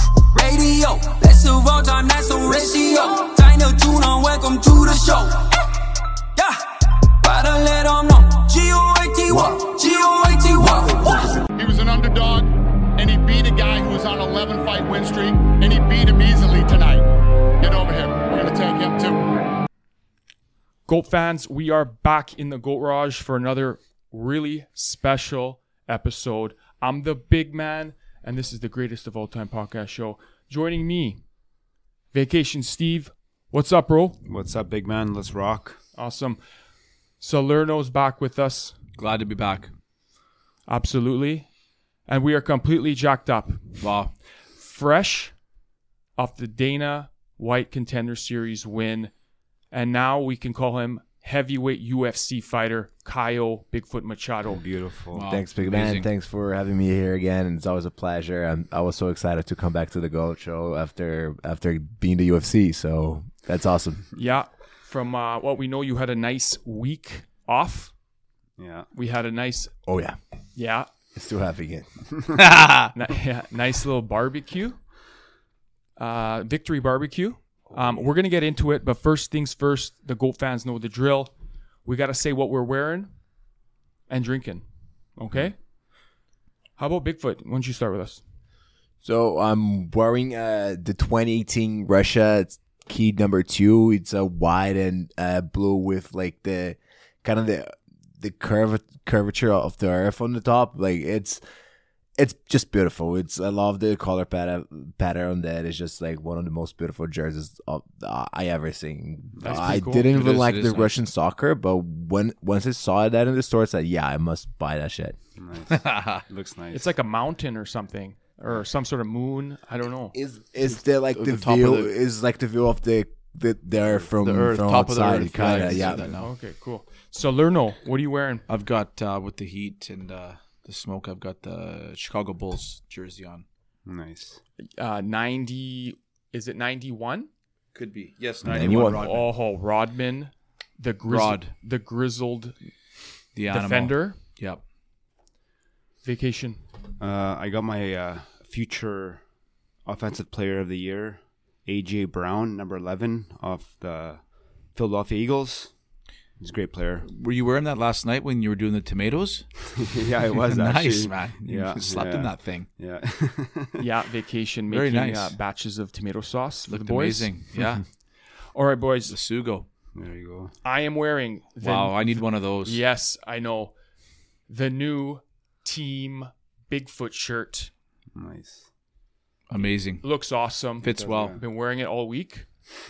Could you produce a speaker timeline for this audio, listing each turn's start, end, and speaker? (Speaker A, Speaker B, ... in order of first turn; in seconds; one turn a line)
Speaker A: 0.3-5.5
Speaker A: 6.4-11.4
Speaker B: 11.5-17.0
Speaker B: 17.6-19.2
Speaker C: 20.9-31.2
Speaker C: 32.1-34.2
Speaker D: 34.2-35.8
Speaker C: 36.0-36.4
Speaker C: 37.2-38.8
Speaker E: 39.0-39.7
Speaker C: 40.7-41.5
Speaker C: 42.1-43.9
Speaker E: 43.8-44.1
Speaker C: 44.6-45.3
Speaker C: 46.2-49.1
Speaker C: 49.7-54.6
Speaker D: 54.5-55.2
Speaker E: 55.1-56.1
Speaker F: 55.3-64.0
Speaker C: 64.2-67.9
Speaker D: 68.6-68.9
Speaker C: 68.9-69.7
Speaker F: 69.9-70.2
Speaker C: 70.6-70.9
Speaker F: 71.2-71.9
Speaker E: 72.4-72.9
Speaker C: 72.9-74.8
Speaker C: 76.0-81.3
Speaker C: 81.8-83.1
Speaker C: 84.1-84.6
Speaker C: 85.2-85.6
Speaker C: 86.8-88.2
Speaker F: 89.0-101.4
Speaker F: 102.2-115.2
Speaker C: 109.4-110.1
Speaker E: 109.5-110.9
Speaker D: 115.4-116.9
Speaker E: 115.8-116.2
Speaker C: 116.7-120.1
Speaker F: 120.1-126.1
Speaker E: 120.6-121.9
Speaker E: 124.2-126.3
Speaker C: 126.2-128.4
Speaker E: 128.5-133.4
Speaker D: 133.8-134.4
Speaker C: 134.8-137.3
Speaker E: 137.7-139.3
Speaker F: 138.4-139.0
Speaker C: 138.7-142.5
Speaker E: 141.1-141.5
Speaker E: 143.3-144.6
Speaker C: 143.5-144.2
Speaker C: 146.0-146.6
Speaker D: 147.0-149.2
Speaker D: 149.8-154.2
Speaker D: 154.7-155.7
Speaker D: 156.4-157.1
Speaker E: 157.1-159.6
Speaker D: 159.8-163.8
Speaker E: 160.4-162.7
Speaker C: 163.8-167.3
Speaker E: 164.7-165.3
Speaker E: 166.7-167.8
Speaker C: 168.5-169.1
Speaker E: 169.1-169.6
Speaker D: 169.9-170.5
Speaker C: 170.6-173.7
Speaker E: 171.6-172.8
Speaker C: 174.5-177.7
Speaker D: 178.2-178.7
Speaker E: 179.5-180.0
Speaker C: 180.0-182.5
Speaker E: 180.8-181.4
Speaker D: 181.0-181.3